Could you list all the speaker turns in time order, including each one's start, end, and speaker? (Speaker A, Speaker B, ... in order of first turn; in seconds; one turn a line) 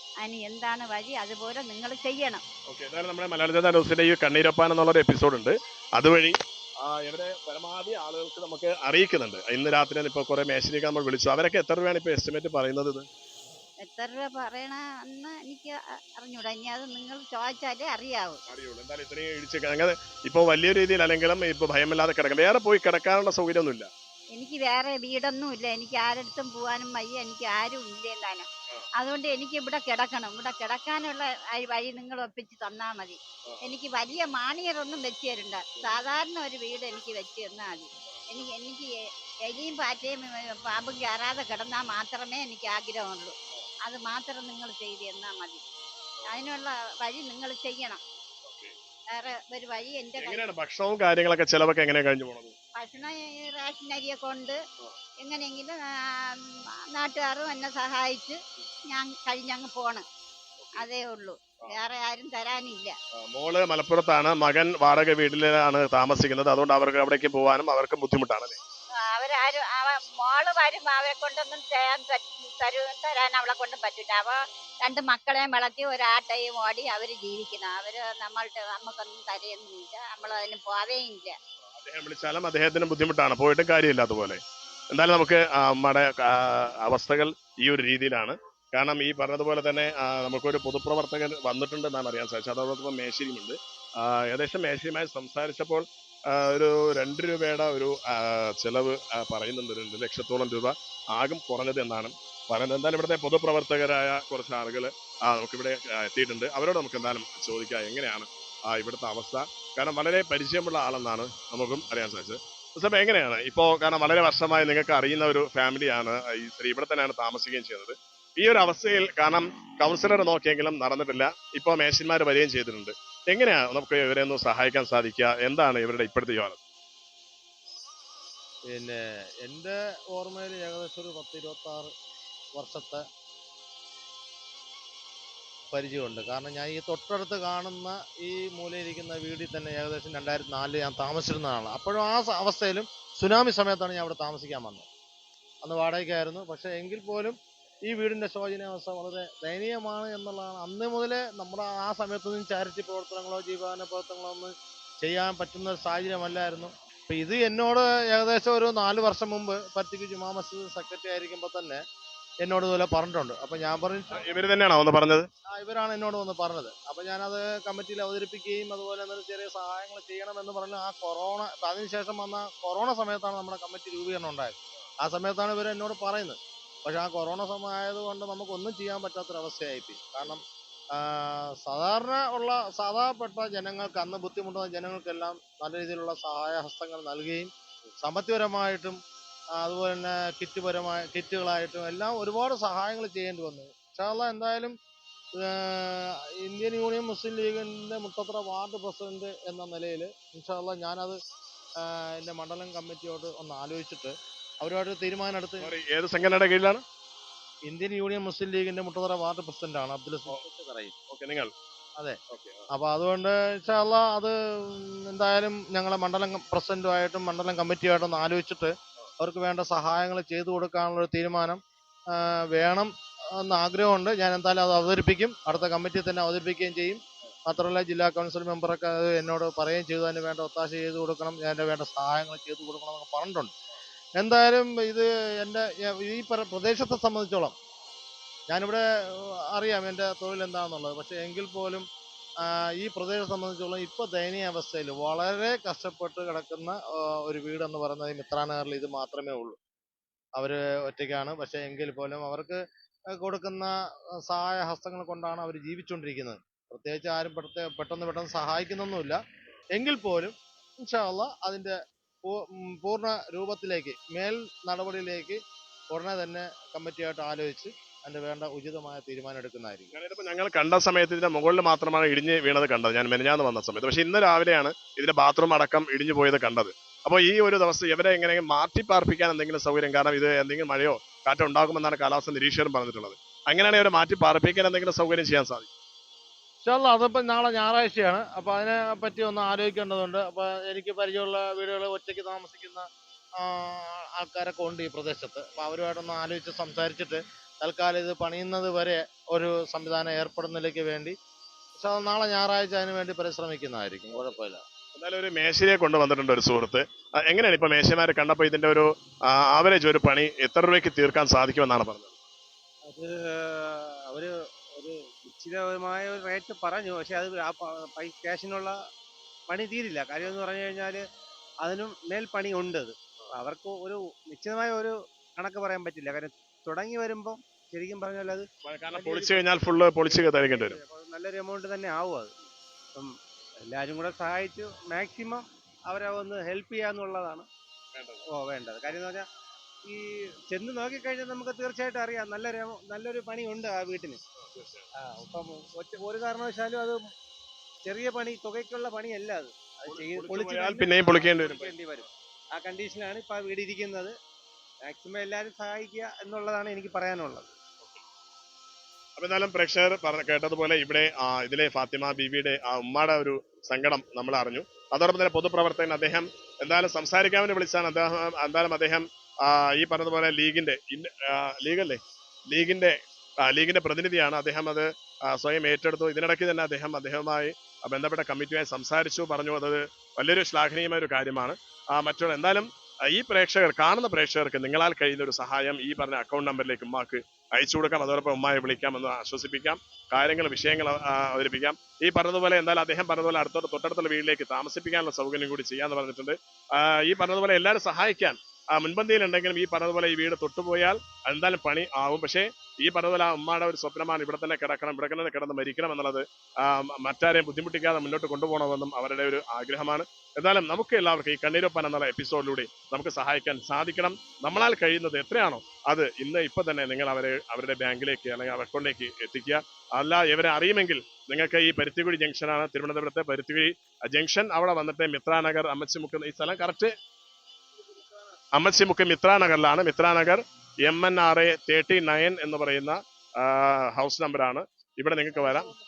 Speaker A: 0.2-2.4
Speaker B: 2.7-13.1
Speaker A: 13.8-18.4
Speaker B: 18.5-23.9
Speaker A: 24.4-28.5
Speaker A: 29.0-38.9
Speaker A: 39.5-45.6
Speaker A: 46.3-48.0
Speaker B: 48.5-48.7
Speaker A: 49.1-50.4
Speaker B: 50.2-52.5
Speaker A: 52.8-54.6
Speaker A: 55.2-58.4
Speaker A: 58.9-60.0
Speaker A: 60.8-63.0
Speaker B: 63.2-68.6
Speaker A: 69.0-81.3
Speaker B: 81.8-84.4
Speaker B: 84.9-126.6
Speaker C: 128.7-131.9
Speaker C: 132.6-133.0
Speaker C: 135.7-144.9
Speaker C: 145.6-147.3
Speaker C: 147.9-161.8
Speaker C: 162.4-164.2
Speaker B: 164.2-165.3
Speaker C: 165.5-180.4
Speaker C: 181.0-187.5
Speaker C: 188.0-189.0
Speaker C: 189.6-194.8
Speaker C: 195.3-201.2
Speaker C: 201.8-205.7
Speaker B: 205.6-206.8
Speaker C: 207.7-210.9
Speaker B: 211.1-211.5
Speaker B: 212.3-212.7
Speaker C: 212.7-221.6
Speaker C: 222.1-233.5
Speaker C: 234.2-237.6
Speaker C: 238.5-241.8
Speaker C: 242.5-249.6
Speaker C: 250.4-252.6
Speaker C: 253.1-253.7
Speaker C: 254.2-259.2
Speaker C: 259.8-265.4
Speaker C: 265.9-269.9
Speaker B: 269.9-285.7
Speaker C: 286.6-292.9
Speaker C: 293.4-301.1
Speaker C: 301.8-304.6
Speaker B: 304.9-312.1
Speaker D: 312.9-318.8
Speaker D: 319.5-321.0
Speaker D: 321.6-332.3
Speaker B: 328.6-330.8
Speaker D: 332.9-337.5
Speaker B: 337.9-338.2
Speaker D: 338.3-339.3
Speaker D: 339.9-344.2
Speaker B: 344.5-344.9
Speaker D: 345.0-347.0
Speaker D: 347.8-354.1
Speaker B: 349.9-351.8
Speaker D: 354.8-357.5
Speaker B: 359.2-426.9
Speaker B: 428.6-435.7